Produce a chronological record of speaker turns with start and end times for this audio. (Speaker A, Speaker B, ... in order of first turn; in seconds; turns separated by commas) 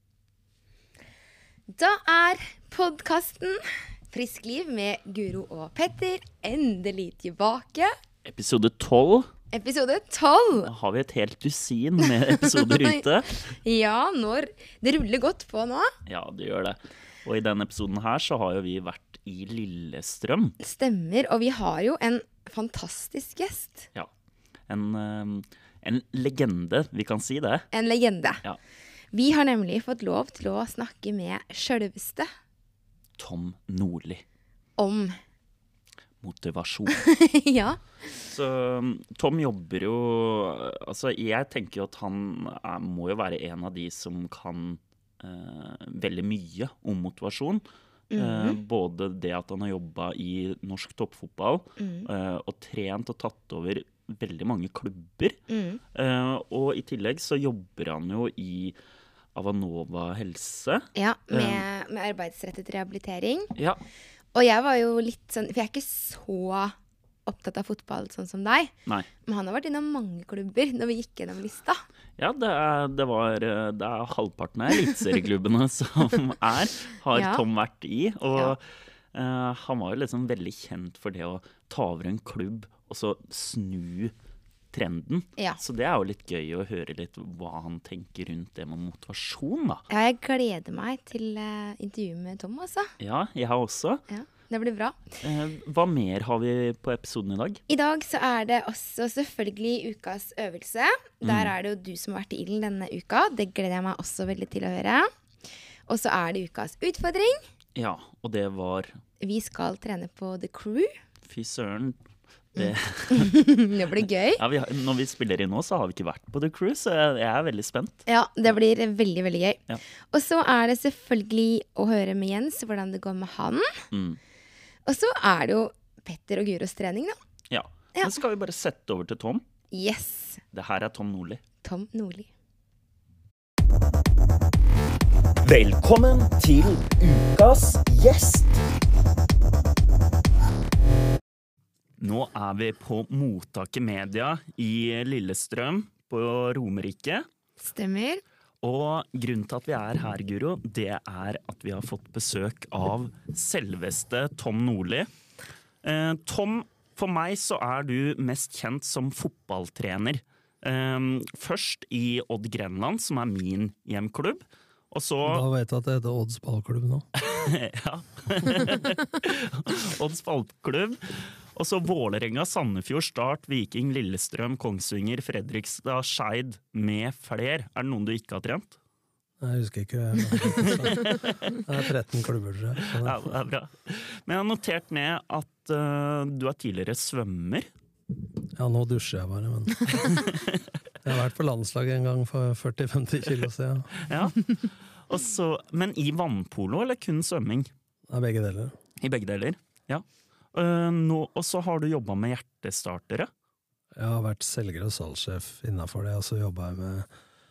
Speaker A: 1.7-7.9, Speaker B: 8.2-9.3, Speaker A: 9.5-10.7, Speaker B: 10.6-13.4, Speaker A: 12.4-15.9, Speaker B: 16.1-20.6, Speaker A: 20.6-23.9, Speaker B: 24.7-27.6, Speaker A: 27.7-28.4, Speaker A: 29.1-32.3, Speaker B: 33.2-34.2, Speaker A: 34.8-35.2, Speaker B: 36.2-37.0, Speaker A: 36.9-37.8, Speaker B: 38.2-47.6, Speaker A: 48.1-48.6, Speaker B: 48.1-55.4, Speaker A: 51.8-52.1, Speaker A: 55.5-55.8, Speaker B: 55.9-58.8, Speaker B: 59.3-61.6, Speaker A: 60.9-63.5, Speaker B: 63.5-63.8, Speaker A: 64.3-68.7, Speaker A: 69.2-71.8, Speaker B: 72.2-84.1, Speaker A: 77.1-77.4, Speaker B: 84.7-89.8, Speaker A: 89.9-92.9, Speaker B: 93.0-94.0, Speaker A: 94.1-95.0, Speaker B: 95.2-97.6, Speaker A: 97.7-105.1, Speaker B: 101.2-101.5, Speaker A: 105.9-107.4, Speaker B: 107.8-109.0, Speaker A: 109.2-110.9, Speaker B: 111.2-112.0, Speaker B: 112.5-113.4, Speaker A: 112.6-114.4, Speaker B: 114.3-118.0, Speaker A: 118.0-119.6, Speaker A: 120.1-123.8, Speaker B: 123.9-124.2, Speaker A: 124.8-127.2, Speaker B: 127.5-129.4, Speaker A: 129.7-130.4, Speaker B: 130.5-131.4, Speaker A: 131.6-132.3, Speaker B: 135.4-138.6, Speaker B: 142.0-147.2, Speaker A: 147.6-148.2, Speaker B: 148.6-155.1, Speaker B: 155.8-165.4, Speaker C: 165.2-167.1, Speaker B: 167.2-178.8, Speaker C: 179.4-183.2, Speaker B: 180.6-181.6, Speaker B: 182.8-187.7, Speaker C: 188.5-190.1, Speaker B: 190.0-190.6, Speaker C: 191.0-194.0, Speaker B: 194.0-197.7, Speaker C: 198.1-198.8, Speaker B: 199.0-203.3, Speaker C: 203.9-207.1